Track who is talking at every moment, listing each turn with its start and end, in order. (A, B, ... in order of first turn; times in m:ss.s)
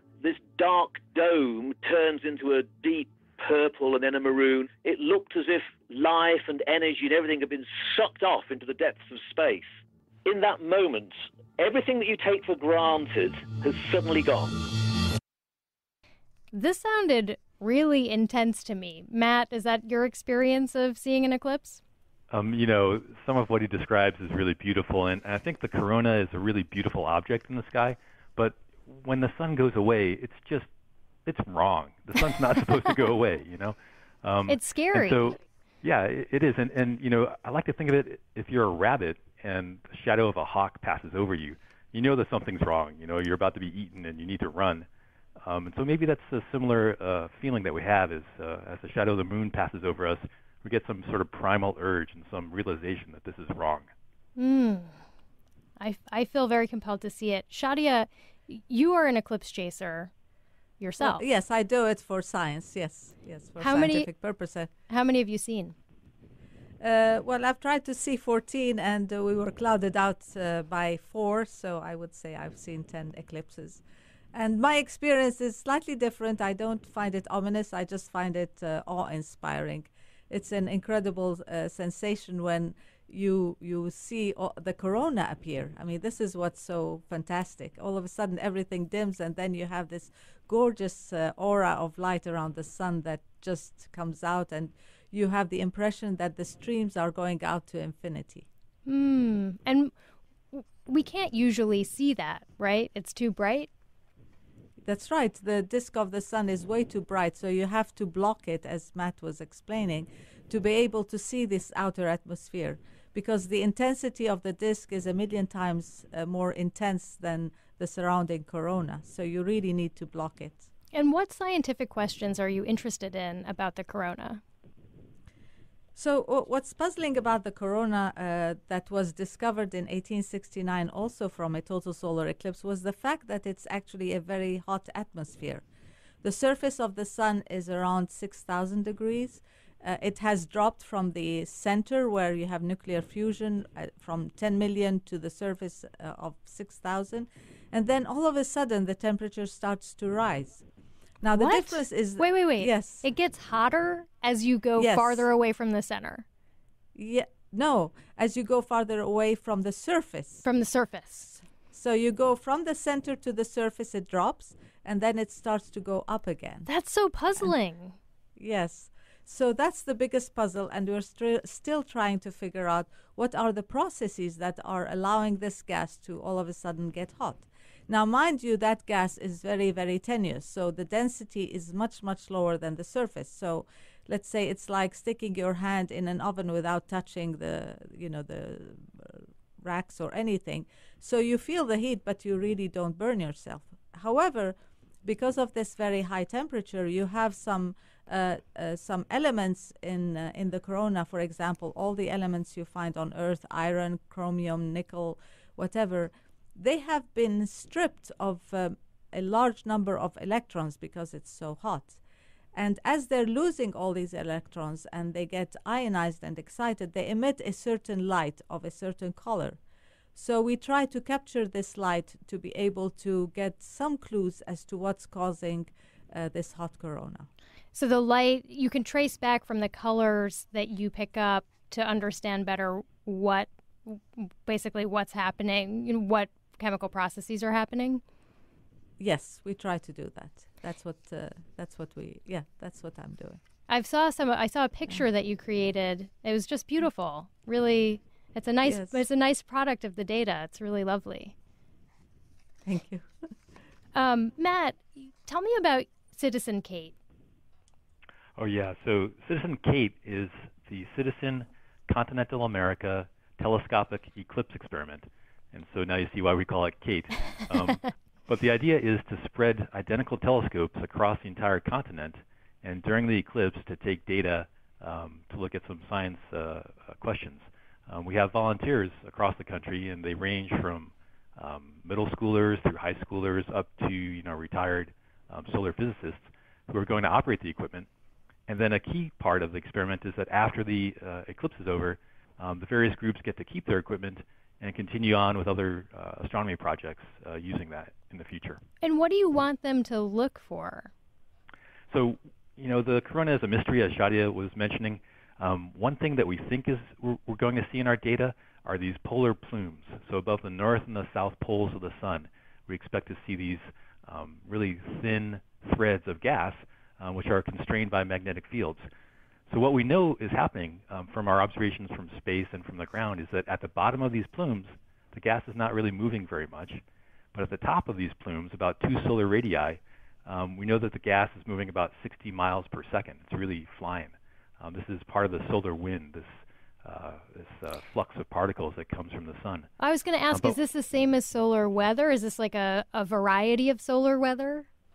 0:00.2-0:09.7 A
0:10.2-0:14.5 A
0:16.5-0:21.8 B
0:22.3-0:30.7 C
0:31.2-0:44.9 C
0:34.5-0:35.3 B
0:45.4-0:53.9 C
0:54.4-0:55.0 B
0:55.8-1:00.1 B
1:00.8-1:01.2 B
1:01.0-1:04.7 D
1:03.6-1:04.1 B
1:04.9-1:05.7 B
1:06.8-1:13.8 D
1:14.3-1:38.5 D
1:38.8-1:39.9 B
1:40.5-1:43.7 B
1:44.8-2:00.7 D
2:00.9-2:04.4 B
2:05.9-2:15.6 D
2:16.2-2:30.6 D
2:31.2-2:33.0 D
2:31.3-2:36.2 B
2:34.8-2:35.2 D
2:36.9-2:40.4 D
2:40.4-2:41.4 B
2:41.7-2:46.7 D
2:46.6-2:48.0 B
2:48.4-3:32.0 D
3:32.5-3:39.6 D
3:40.1-3:47.3 D
3:47.7-3:58.0 B
3:59.0-4:03.4 D
4:03.7-4:11.3 B
4:08.6-4:09.0 D
4:12.6-4:13.1 D
4:13.9-4:16.9 B
4:18.4-4:47.9 C
4:48.5-4:58.6 C
4:58.8-5:00.9 B
5:01.9-5:18.8 C
5:19.5-5:26.8 C
5:27.3-5:39.7 C
5:39.8-5:44.7 B